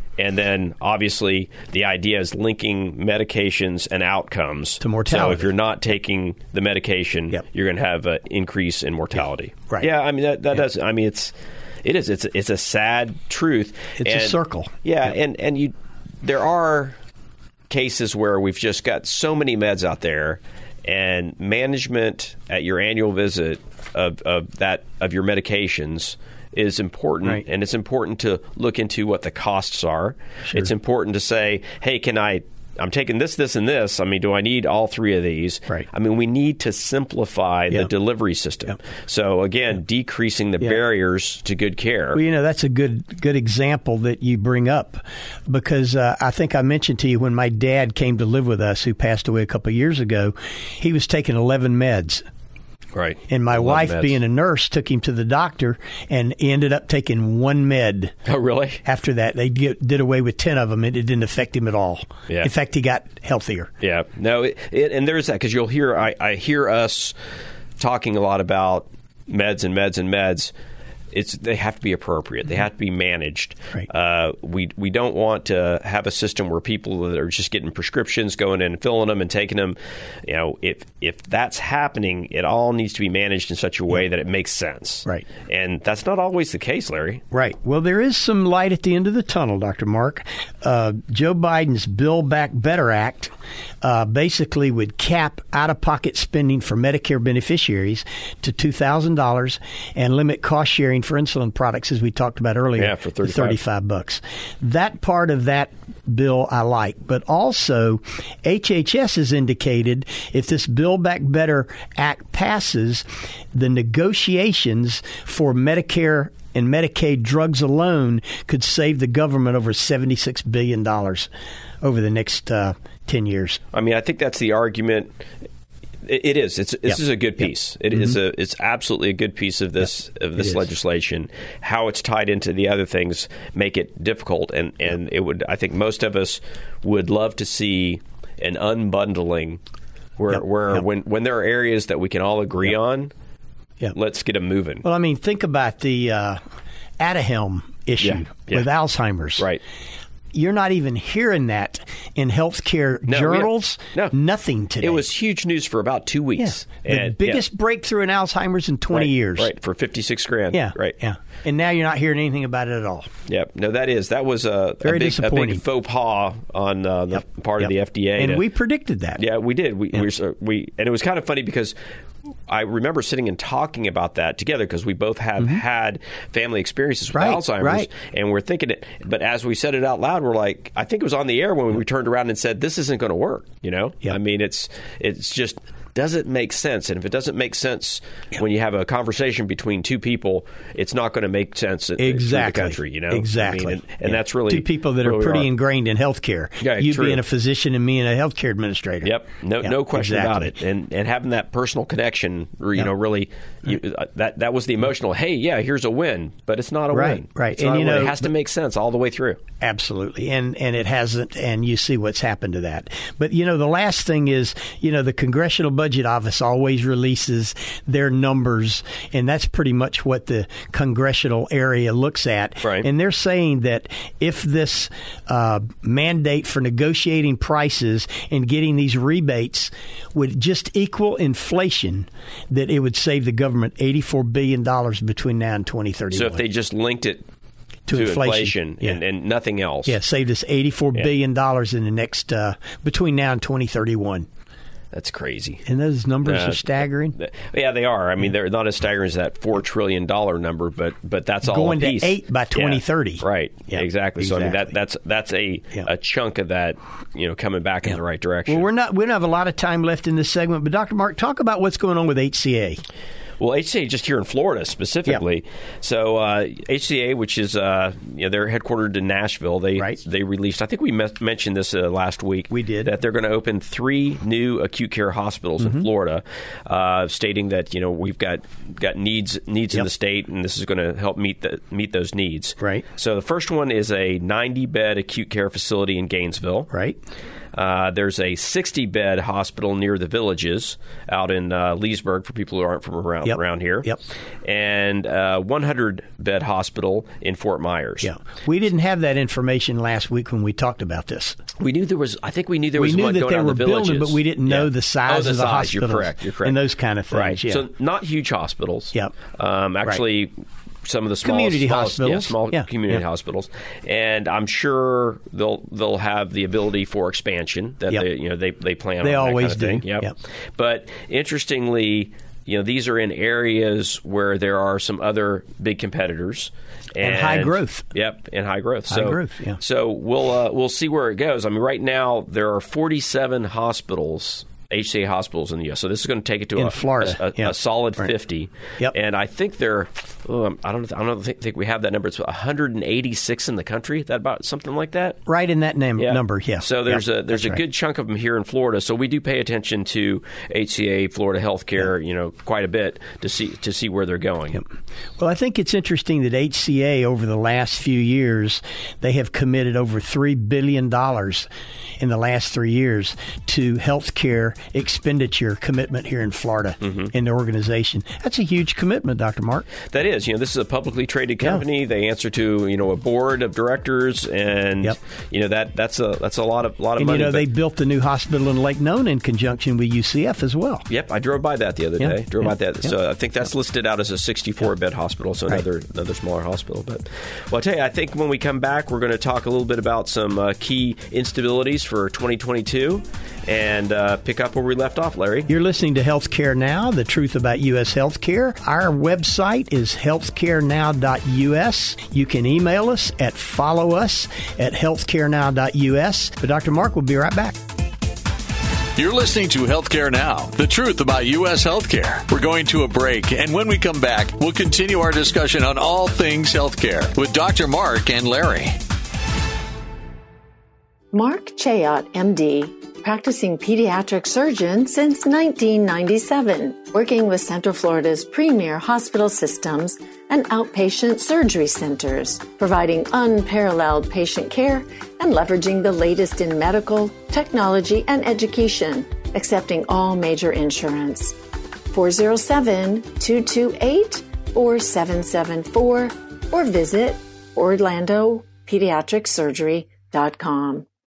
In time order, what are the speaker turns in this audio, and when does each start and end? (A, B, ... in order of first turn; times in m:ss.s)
0:00.2-0:17.0 A
0:04.8-0:05.5 B
0:14.0-0:14.7 B
0:17.7-0:42.2 A
0:42.1-0:52.2 B
0:52.9-0:54.2 A
0:53.3-0:58.1 B
0:58.2-0:58.8 A
0:58.8-1:03.7 B
1:03.8-1:07.1 A
1:07.8-1:10.5 A
1:11.1-1:27.2 A
1:27.3-2:01.3 B
1:42.8-1:43.6 A
2:01.8-2:03.6 B
2:03.7-2:05.2 A
2:06.0-2:19.6 A
2:10.4-2:10.6 B
2:20.2-2:23.1 A
2:23.9-2:24.8 A
2:24.8-2:26.4 B
2:27.0-2:29.4 B
2:28.0-2:28.7 A
2:30.3-2:35.0 B
2:33.1-2:34.1 A
2:34.8-2:37.4 A
2:36.4-2:39.5 B
2:38.9-2:41.0 A
2:40.5-2:43.1 B
2:43.3-2:48.4 A
2:44.8-2:45.6 B
2:47.6-2:49.2 B
2:49.2-2:51.8 A
2:52.5-3:15.5 A
2:57.1-2:57.9 B
3:12.0-3:20.5 B
3:16.6-3:17.2 A
3:19.0-3:29.4 A
3:26.9-3:28.3 B
3:29.6-3:56.4 B
3:42.6-3:42.9 A
3:56.1-3:57.2 A
3:57.9-3:59.0 B
3:57.9-4:00.0 A
3:59.8-4:04.3 B
4:04.9-4:05.6 A
4:05.6-4:07.2 B
4:06.2-4:18.7 A
4:11.4-4:14.7 B
4:18.5-4:22.8 B
4:23.4-4:46.7 A
4:32.5-4:32.9 B
4:35.6-4:35.8 B
4:42.6-4:42.8 B
4:46.7-4:47.0 B
4:47.5-4:53.9 A
4:53.2-4:54.0 B
4:54.4-4:58.1 A
4:58.0-5:01.4 B
5:01.6-5:06.6 A
5:02.8-5:07.6 B
5:07.1-5:45.2 A
5:11.2-5:13.0 B
5:19.0-5:20.1 B
5:27.0-5:27.8 B
5:28.9-5:29.6 B
5:36.6-5:38.1 B
5:45.2-5:47.6 B
5:46.0-5:54.6 A
5:55.2-6:01.5 B
6:02.0-6:09.7 B
6:06.8-6:07.1 A
6:09.9-6:17.5 A
6:17.0-6:20.8 B
6:20.9-6:35.5 A
6:35.5-6:47.5 B
6:49.0-6:58.7 C
7:01.1-7:21.4 D
7:21.9-7:30.8 D